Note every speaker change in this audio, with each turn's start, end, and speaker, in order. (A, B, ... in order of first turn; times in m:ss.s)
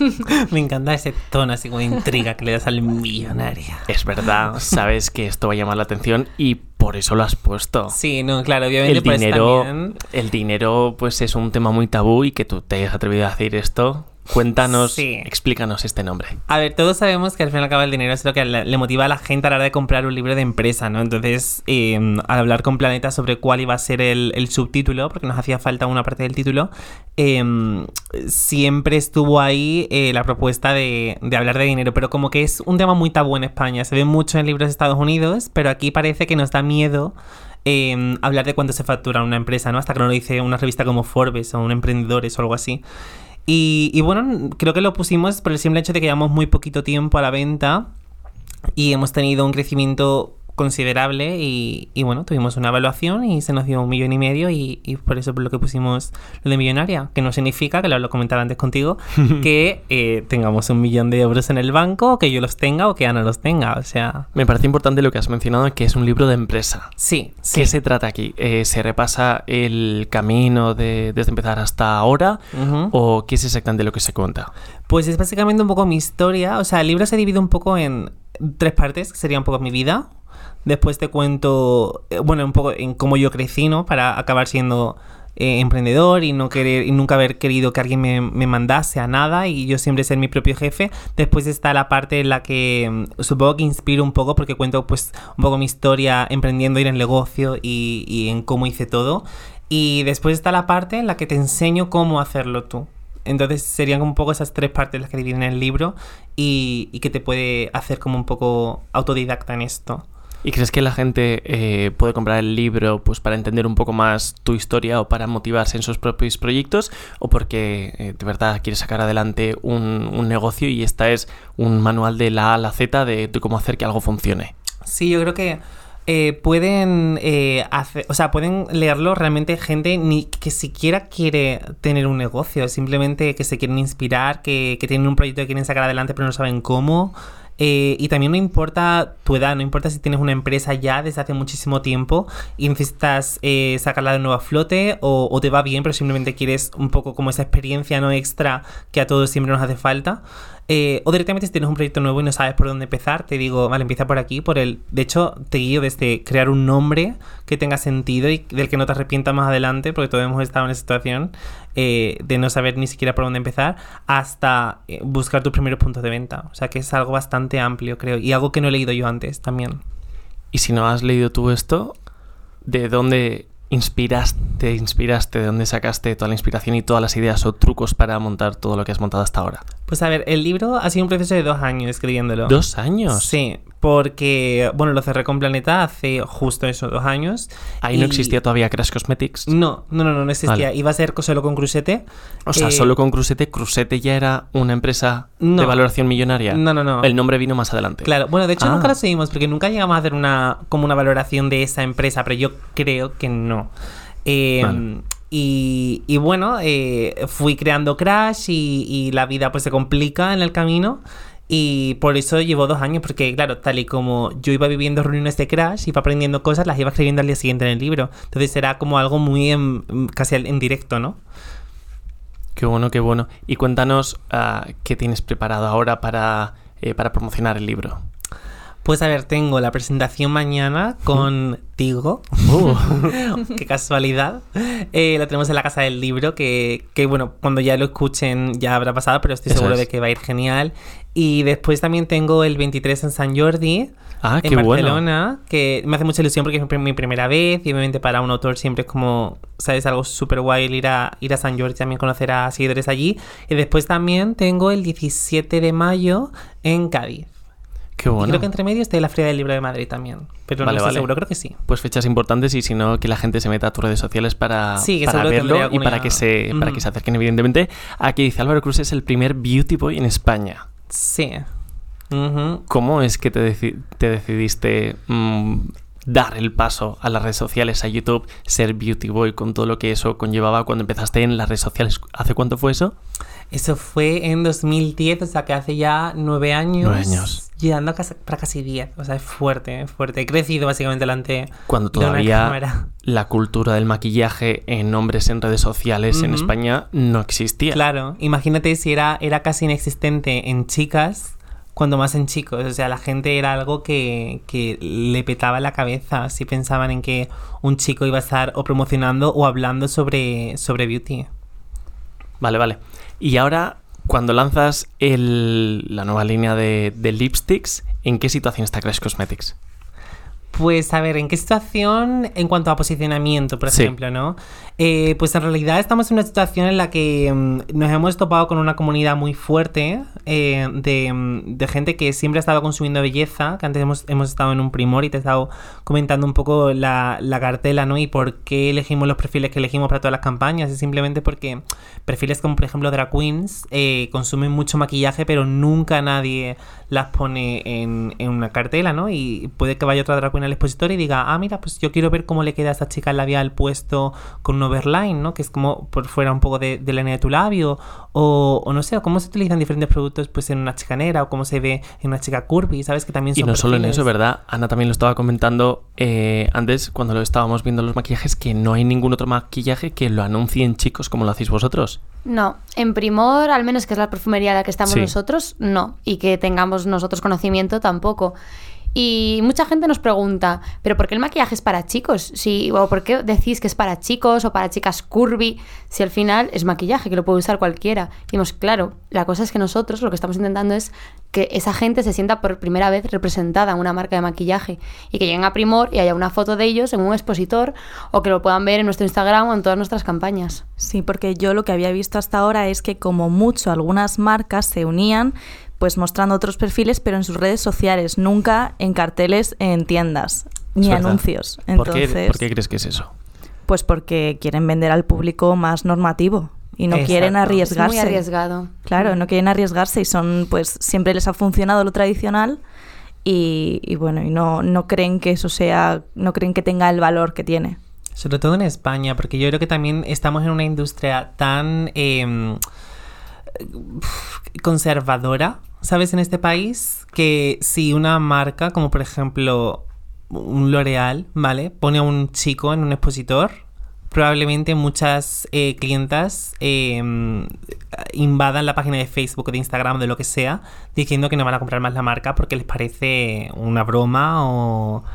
0:00.2-0:03.9 A
0:03.9-0:08.0 B
0:07.9-0:10.0 A
0:08.8-0:16.4 B
0:14.7-0:15.3 A
0:16.5-0:37.1 A
0:37.6-0:42.8 A
0:43.5-0:47.9 A
0:48.8-1:04.3 A
1:04.3-1:06.9 B
1:07.0-1:07.7 A
1:07.5-1:14.5 B
1:12.5-1:12.9 A
1:14.9-1:20.1 A
1:20.6-1:50.0 A
1:50.4-2:04.5 B
2:04.8-2:49.8 A
2:50.5-2:52.0 B
2:52.6-2:59.6 B
2:59.9-3:02.6 A
3:02.5-3:03.3 B
3:03.1-3:08.3 A
3:07.8-3:09.5 B
3:09.5-3:12.0 A
3:12.5-3:18.9 B
3:12.5-3:13.0 A
3:15.4-3:15.8 A
3:16.5-3:17.1 A
3:18.0-3:23.7 A
3:24.2-3:41.2 A
3:42.6-3:48.0 B
3:48.8-4:03.9 A
3:52.4-3:53.2 B
3:59.5-3:59.8 B
4:04.2-4:05.0 B
4:04.4-4:17.3 A
4:18.0-4:18.5 B
4:18.2-4:21.6 A
4:20.6-4:21.1 B
4:21.6-4:30.7 B
4:24.8-4:26.8 A
4:30.9-4:31.5 A
4:32.1-4:32.6 A
4:32.7-4:43.0 B
4:43.5-4:52.9 A
4:46.8-4:47.4 B
4:51.7-4:57.8 B
4:56.1-4:56.5 A
4:57.7-5:11.3 A
5:12.4-5:19.5 B
5:20.5-6:04.1 A
6:03.4-6:12.0 B
6:12.2-6:18.4 C
6:14.9-6:15.1 B
6:18.9-6:40.6 C
6:40.8-6:52.4 D
6:50.8-6:53.1 B
6:53.7-6:58.2 D
6:56.9-6:57.6 A
6:57.1-6:59.2 C
6:58.9-7:02.6 D
7:03.2-7:07.8 D
7:08.2-7:12.6 A
7:13.6-7:35.0 A